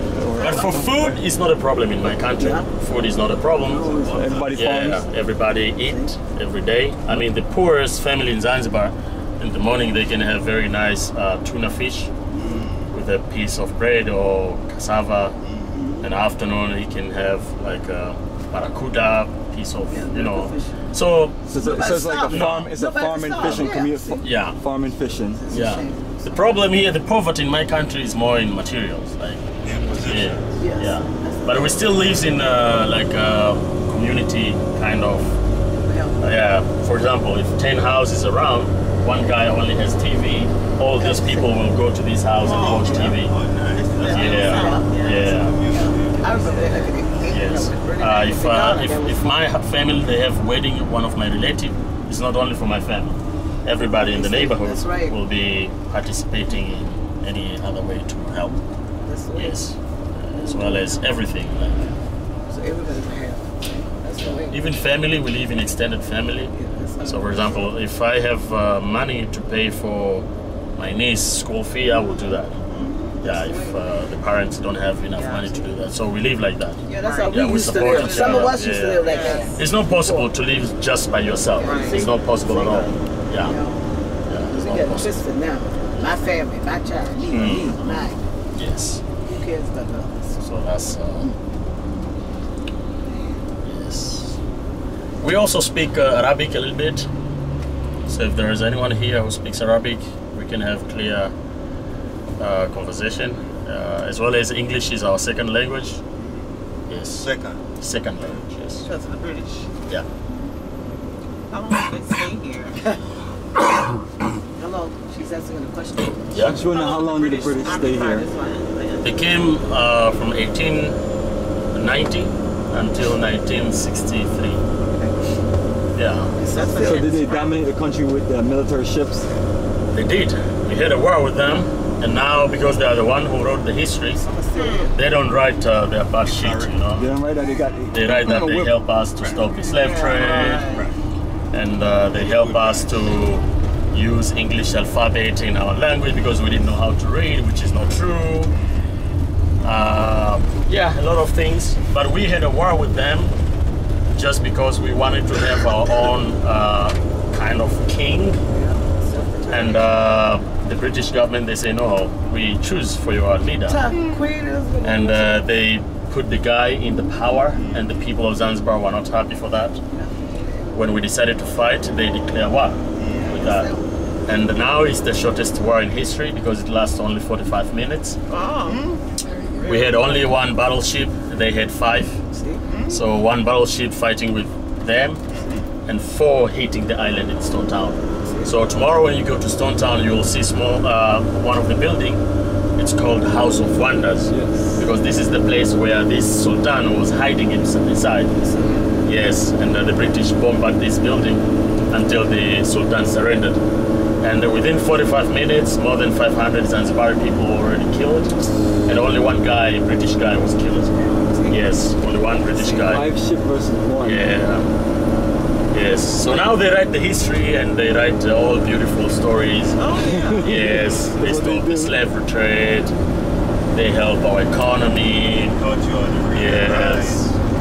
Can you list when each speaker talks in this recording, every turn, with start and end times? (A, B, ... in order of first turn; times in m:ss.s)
0:00.1-0:01.2 A
0:00.4-0:04.0 B
0:02.3-0:02.7 C
0:03.6-0:05.1 A
0:03.7-0:05.0 D
0:04.5-0:12.1 B
0:12.3-0:12.6 C
0:12.3-0:12.9 D
0:12.9-0:15.4 B
0:15.4-0:15.8 D
0:15.8-0:16.0 C
0:16.0-0:22.8 B
0:19.9-0:20.8 C
0:21.5-0:24.3 C
0:21.5-0:25.4 A
0:23.4-0:24.6 B
0:25.3-0:26.6 C
0:25.5-0:35.4 B
0:29.6-0:30.6 D
0:30.6-0:32.2 C
0:35.8-0:36.2 C
0:36.2-0:43.3 B
0:41.0-0:41.6 C
0:42.4-0:47.2 D
0:42.4-0:43.0 E
0:42.6-0:43.1 C
0:43.8-0:45.4 E
0:44.0-0:44.9 C
0:44.1-0:45.6 B
0:45.7-0:49.3 C
0:46.4-0:46.7 E
0:47.3-0:58.6 B
0:53.9-0:55.1 C
0:59.1-0:59.6 C
0:59.4-1:01.9 B
1:00.3-1:01.0 C
1:02.5-1:04.6 C
1:04.2-1:12.6 B
1:06.5-1:07.4 C
1:12.9-1:13.8 C
1:13.2-1:23.6 B
1:15.2-1:15.7 E
1:16.9-1:20.3 C
1:17.0-1:19.6 E
1:21.6-1:23.9 C
1:21.6-1:22.1 E
1:24.3-1:25.2 B
1:24.5-1:28.2 C
1:27.3-1:28.0 B
1:27.4-1:28.1 E
1:28.6-1:29.0 B
1:29.2-1:30.4 C
1:30.4-1:31.3 B
1:33.6-1:34.4 B
1:35.2-1:37.1 B
1:38.1-1:41.3 B
1:42.4-1:46.0 B
1:46.2-1:46.5 D
1:46.9-1:48.9 B
1:47.2-1:47.6 D
1:48.8-1:49.7 E
1:51.5-1:52.9 E
1:54.6-1:56.2 C
1:56.3-1:56.6 B
1:56.4-1:58.3 A
1:56.6-1:59.2 E
1:59.0-2:01.0 B
2:01.7-2:04.6 B
2:06.0-2:06.3 B
2:06.4-2:07.4 C
2:06.6-2:07.5 E
2:06.8-2:09.2 A
2:09.9-2:14.2 B
2:14.1-2:15.0 C
2:14.6-2:14.9 E
2:14.9-2:17.1 B
2:16.2-2:16.8 D
2:17.0-2:18.8 A
2:17.9-2:20.7 B
2:19.6-2:20.9 E
2:20.6-2:20.9 D
2:21.5-2:28.5 B
2:22.1-2:23.2 D
2:29.6-2:33.4 B
2:34.1-2:38.4 B
2:38.5-2:39.9 C
2:39.5-2:43.8 B
2:43.7-2:45.4 C
2:44.8-2:49.8 B
2:47.5-2:47.9 D
2:49.9-2:50.9 C
2:50.7-2:53.7 B
2:53.0-2:53.4 D
2:53.1-2:53.9 C
2:54.3-2:58.2 B
2:58.3-2:58.9 E
2:58.7-2:59.0 D
2:59.6-3:02.2 B
3:02.3-3:02.6 C
3:02.7-3:03.0 D
3:02.9-3:05.2 B
3:05.3-3:05.6 D
3:05.9-3:12.2 B
3:08.2-3:08.6 C
3:12.8-3:18.4 B
3:14.3-3:14.8 A
3:18.4-3:18.9 C
3:19.0-3:23.6 B
3:24.2-3:28.4 B
3:28.9-3:33.1 B
3:31.1-3:31.6 C
3:32.8-3:34.3 A
3:34.0-3:34.7 B
3:35.7-3:39.8 B
3:39.8-3:40.5 E
3:39.9-3:42.0 A
3:40.4-3:42.9 B
3:43.7-3:45.6 B
3:45.5-3:47.4 D
3:46.3-3:47.3 B